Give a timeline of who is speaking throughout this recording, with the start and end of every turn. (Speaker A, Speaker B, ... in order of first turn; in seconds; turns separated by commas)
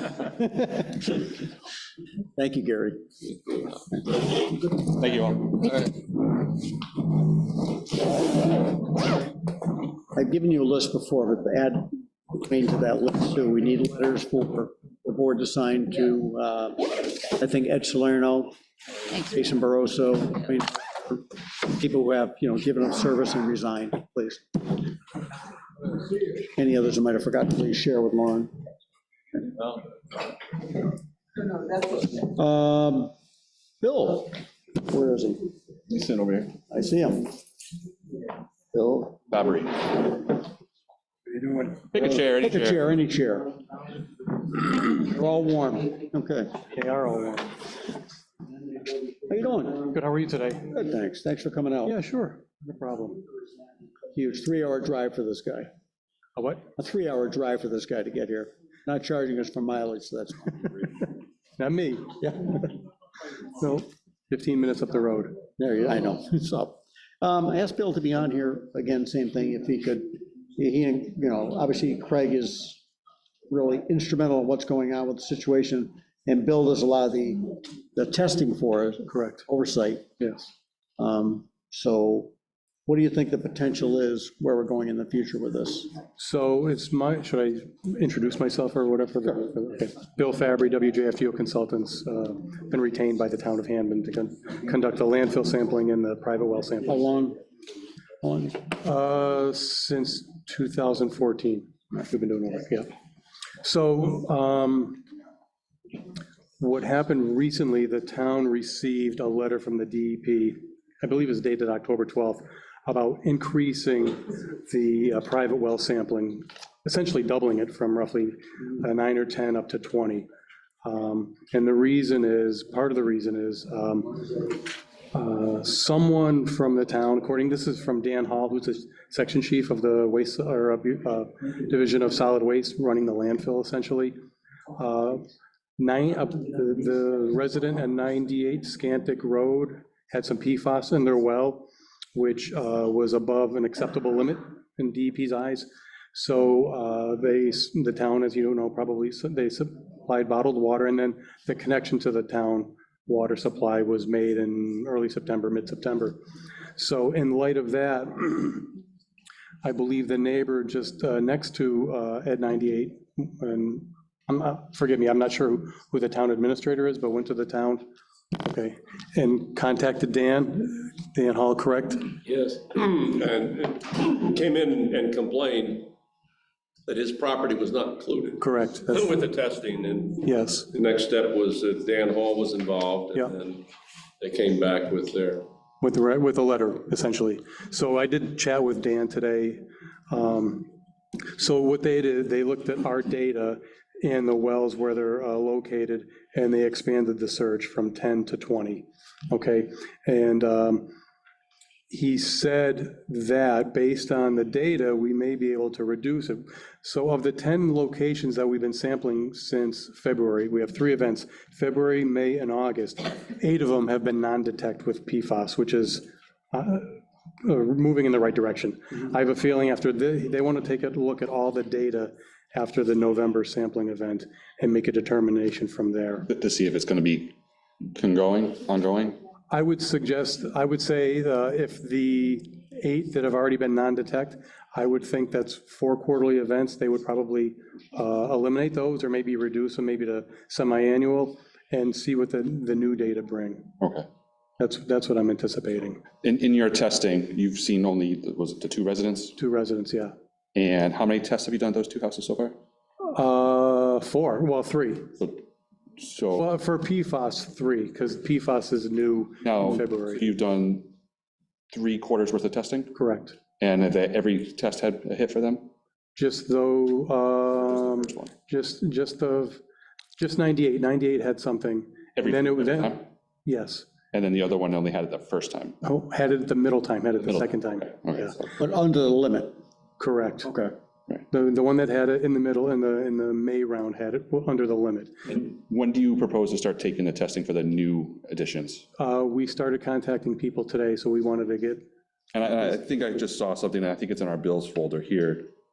Speaker A: 0.3-1.2, Speaker A: 2.4-3.0, Speaker B: 4.8-5.9, Speaker A: 10.1-18.6, Speaker A: 19.2-24.8, Speaker A: 26.5-28.5, Speaker A: 32.0-33.1, Speaker A: 33.8-35.5, Speaker B: 35.9-36.4, Speaker A: 36.7-37.4, Speaker A: 38.7-39.2, Speaker B: 39.3-40.1, Speaker B: 41.9-42.8, Speaker A: 42.0-43.6, Speaker A: 44.5-46.6, Speaker C: 46.7-47.6, Speaker A: 49.1-49.9, Speaker C: 49.9-50.7, Speaker A: 50.7-52.0, Speaker C: 51.9-53.2, Speaker A: 54.1-55.7, Speaker C: 56.4-56.7, Speaker A: 56.8-61.1, Speaker C: 61.6-62.2, Speaker A: 62.2-62.7, Speaker C: 63.5-65.4, Speaker A: 65.6-72.8, Speaker A: 73.5-80.1, Speaker C: 79.1-79.5, Speaker C: 80.2-80.5, Speaker A: 81.0-82.3, Speaker A: 82.9-85.9, Speaker C: 86.2-97.0, Speaker A: 96.9-97.4, Speaker A: 98.2-98.6, Speaker C: 98.8-102.9, Speaker C: 103.6-105.0, Speaker C: 106.6-120.3, Speaker C: 120.8-124.2, Speaker C: 125.1-134.2, Speaker C: 134.8-135.2, Speaker C: 135.8-156.2, Speaker C: 156.8-158.8, Speaker C: 159.6-167.8, Speaker C: 168.4-172.1, Speaker D: 172.3-175.9, Speaker D: 176.9-183.7, Speaker C: 178.4-179.1, Speaker C: 180.2-180.7, Speaker D: 184.2-185.5, Speaker C: 185.8-190.7, Speaker C: 191.3-200.9, Speaker C: 201.9-226.3, Speaker B: 226.3-227.3, Speaker B: 227.9-229.2, Speaker C: 229.5-243.7, Speaker B: 243.8-244.1, Speaker C: 244.6-246.0, Speaker B: 246.2-249.4, Speaker C: 249.4-250.1, Speaker B: 250.6-252.6, Speaker C: 253.1-255.2, Speaker B: 256.0-256.5, Speaker C: 256.4-260.2, Speaker B: 259.4-260.9, Speaker B: 261.7-262.9, Speaker C: 262.9-263.4, Speaker B: 263.6-265.7, Speaker C: 266.1-269.6, Speaker B: 267.6-268.3, Speaker C: 270.2-273.9, Speaker B: 272.2-273.0, Speaker B: 274.1-275.8, Speaker C: 275.8-278.4, Speaker B: 277.2-278.4, Speaker A: 278.6-279.6, Speaker C: 280.0-280.5, Speaker A: 280.4-280.7, Speaker C: 281.3-285.1, Speaker B: 285.3-288.9, Speaker C: 289.0-291.9, Speaker B: 292.3-295.5